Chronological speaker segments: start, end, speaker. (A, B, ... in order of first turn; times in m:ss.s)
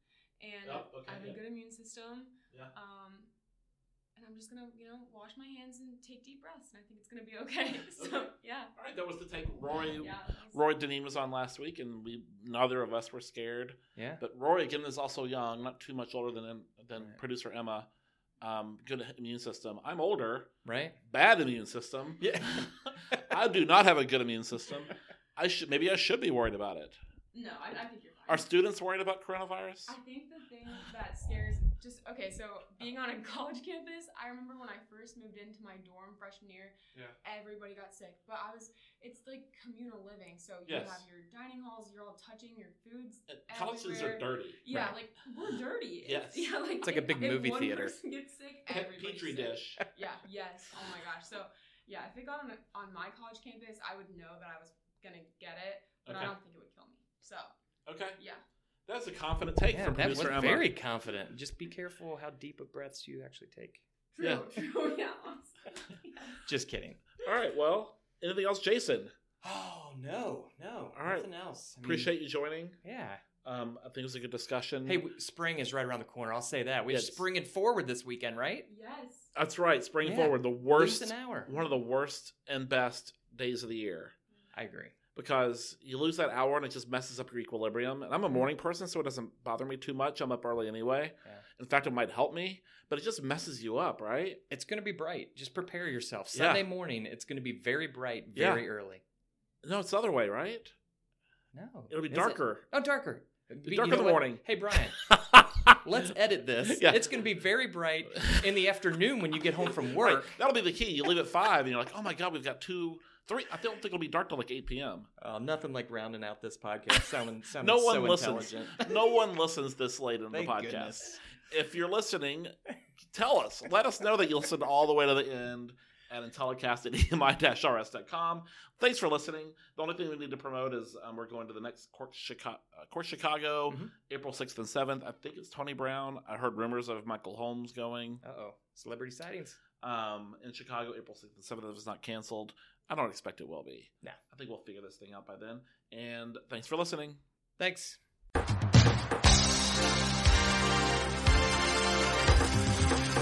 0:00.4-0:03.3 A
0:00.6-0:01.4 B
0:04.2-0:08.7 A
0:08.0-0:17.9 B
0:10.0-0:10.6 A
0:14.0-0:14.2 C
0:18.4-0:20.5 B
0:20.6-0:21.0 C
0:21.1-0:27.0 B
0:22.2-0:23.4 C
0:27.3-0:28.5 A
0:28.3-0:29.9 B
0:29.9-0:57.5 A
0:40.7-0:41.0 B
0:43.3-0:44.6 B
0:46.0-0:46.5 B
0:46.8-0:47.9 C
0:48.7-0:49.8 B
0:56.1-0:56.3 B
0:57.9-0:58.2 B
0:58.2-0:58.4 A
0:58.9-1:00.7 B
0:59.7-1:03.9 C
1:04.1-1:06.4 A
1:04.2-1:04.5 B
1:06.4-1:07.0 C
1:07.2-1:09.1 B
1:09.4-1:12.1 C
1:11.0-1:11.3 B
1:11.8-1:12.8 B
1:12.8-1:13.2 C
1:13.4-1:15.0 B
1:14.8-1:18.7 C
1:16.9-1:17.2 B
1:18.7-1:19.3 A
1:19.4-1:24.1 B
1:20.0-1:21.5 C
1:24.5-1:25.0 C
1:25.2-1:34.4 B
1:34.5-1:39.0 C
1:36.3-1:36.6 B
1:38.4-1:38.6 B
1:39.6-1:40.7 B
1:41.5-1:45.0 C
1:41.9-1:42.7 B
1:43.6-1:45.8 B
1:45.8-1:50.4 C
1:46.6-1:47.1 B
1:48.1-1:48.6 B
1:49.6-1:55.1 B
1:55.2-1:58.9 C
1:57.6-2:18.2 B
2:00.3-2:01.2 C
2:13.7-2:13.9 C
2:18.2-2:19.6 C
2:19.8-2:27.2 B
2:27.6-2:28.0 C